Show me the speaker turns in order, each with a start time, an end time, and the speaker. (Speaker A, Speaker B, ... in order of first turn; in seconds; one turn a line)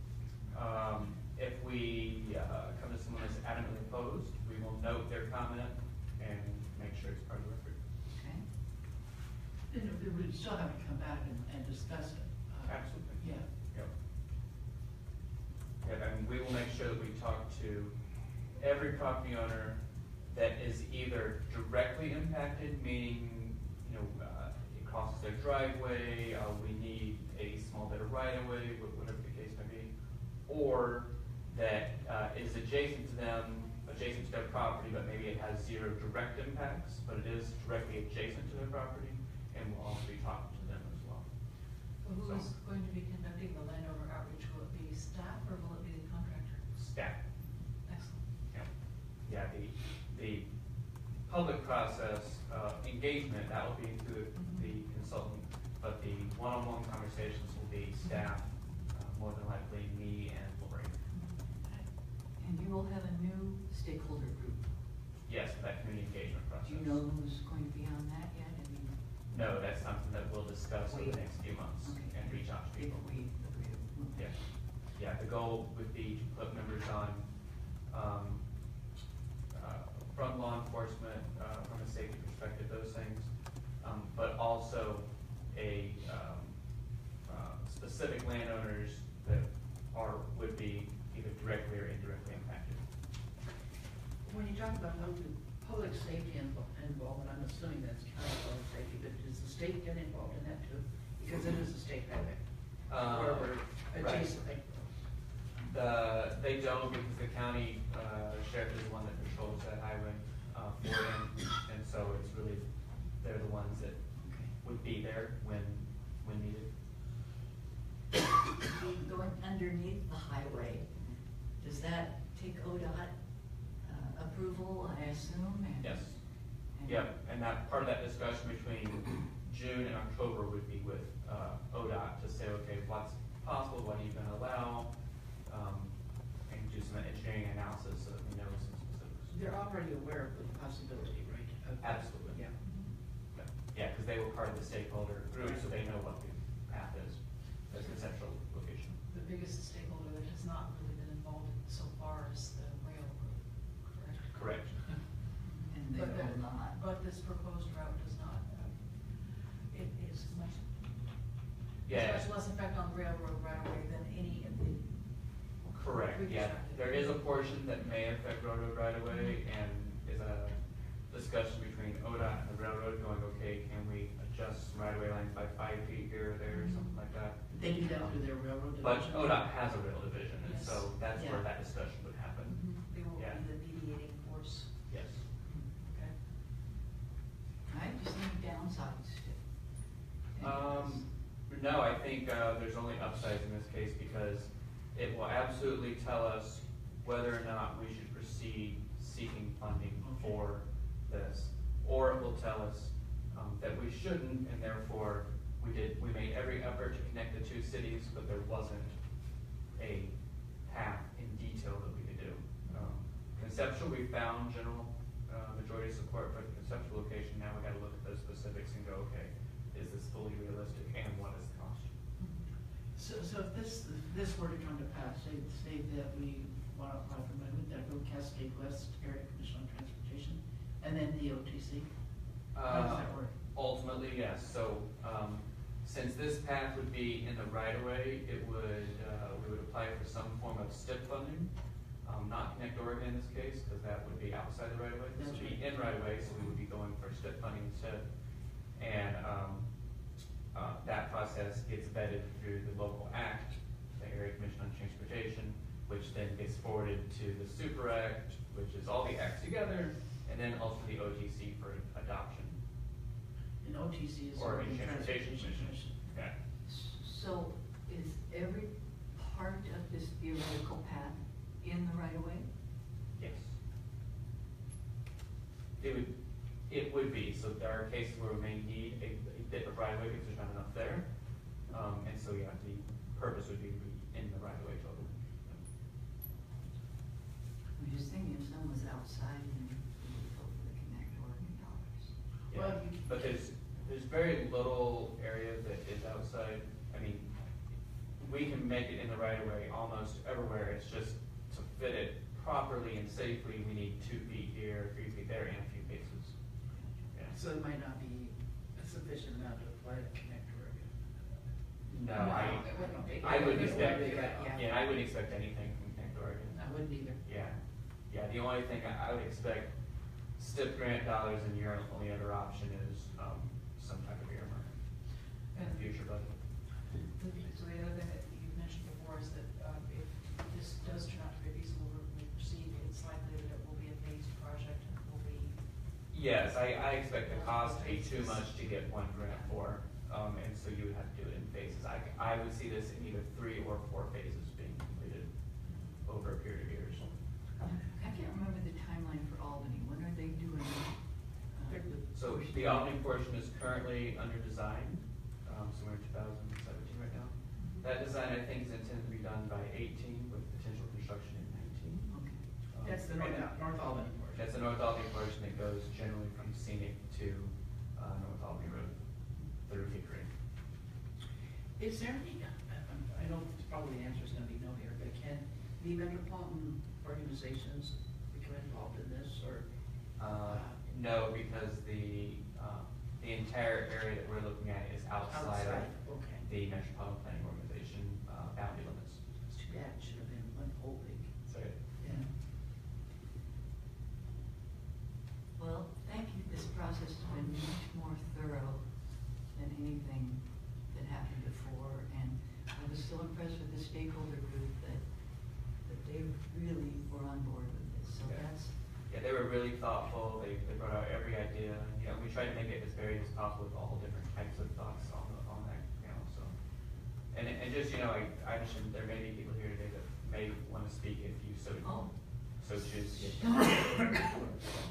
Speaker A: 0.5-7.8
Speaker B: 8.1-8.5
Speaker C: 9.7-13.5
Speaker A: 12.7-13.9
Speaker A: 15.8-29.9
Speaker A: 30.4-41.3
Speaker D: 42.0-46.6
Speaker A: 42.2-42.5
Speaker A: 46.7-47.2
Speaker D: 47.9-48.2
Speaker A: 49.2-50.5
Speaker A: 51.2-61.0
Speaker B: 62.4-64.7
Speaker A: 65.3-66.9
Speaker B: 66.6-69.0
Speaker A: 69.3-73.1
Speaker B: 70.9-74.4
Speaker A: 74.2-78.7
Speaker A: 79.5-92.8
Speaker C: 94.2-104.9
Speaker A: 102.9-104.4
Speaker A: 105.7-116.7
Speaker B: 114.2-114.5
Speaker B: 118.8-121.0
Speaker B: 121.6-126.2
Speaker A: 125.8-139.4
Speaker B: 126.7-127.1
Speaker C: 139.3-142.6
Speaker A: 141.8-142.5
Speaker D: 142.6-142.9
Speaker A: 143.3-149.0
Speaker D: 149.1-154.8
Speaker A: 154.3-155.1
Speaker B: 155.7-156.8
Speaker D: 155.8-167.9
Speaker A: 161.9-162.3
Speaker A: 165.7-183.4
Speaker C: 177.5-179.5
Speaker D: 180.4-181.1
Speaker C: 181.2-181.4
Speaker D: 182.4-184.9
Speaker A: 184.9-185.2
Speaker B: 187.7-189.4
Speaker B: 190.3-191.0
Speaker A: 190.4-222.0
Speaker C: 200.0-200.4
Speaker C: 222.9-231.9
Speaker A: 232.5-248.1
Speaker C: 232.6-233.3
Speaker C: 245.1-246.6
Speaker A: 248.7-249.7
Speaker A: 250.5-262.6
Speaker C: 263.6-266.0
Speaker A: 264.3-266.4
Speaker B: 266.6-272.5
Speaker A: 273.1-273.6
Speaker A: 275.8-285.6
Speaker B: 287.8-292.1
Speaker A: 292.5-306.4
Speaker C: 292.5-293.2
Speaker B: 306.7-307.1
Speaker A: 307.1-307.4
Speaker C: 307.3-314.7
Speaker A: 311.9-324.7
Speaker D: 312.2-314.6
Speaker C: 316.5-317.2
Speaker A: 325.4-326.9
Speaker D: 325.5-326.4
Speaker D: 327.0-335.7
Speaker A: 336.1-347.1
Speaker D: 337.2-339.7
Speaker B: 347.8-352.9
Speaker C: 351.7-352.0
Speaker A: 352.0-362.1
Speaker B: 362.1-362.4
Speaker A: 362.7-370.3
Speaker C: 362.8-364.5
Speaker C: 371.8-379.7
Speaker A: 380.2-389.2
Speaker C: 380.3-380.8
Speaker C: 385.3-386.4
Speaker C: 389.4-391.5
Speaker A: 391.5-391.8
Speaker C: 392.0-392.4
Speaker B: 395.6-408.7
Speaker A: 408.2-416.6
Speaker A: 417.3-424.3
Speaker B: 421.8-424.0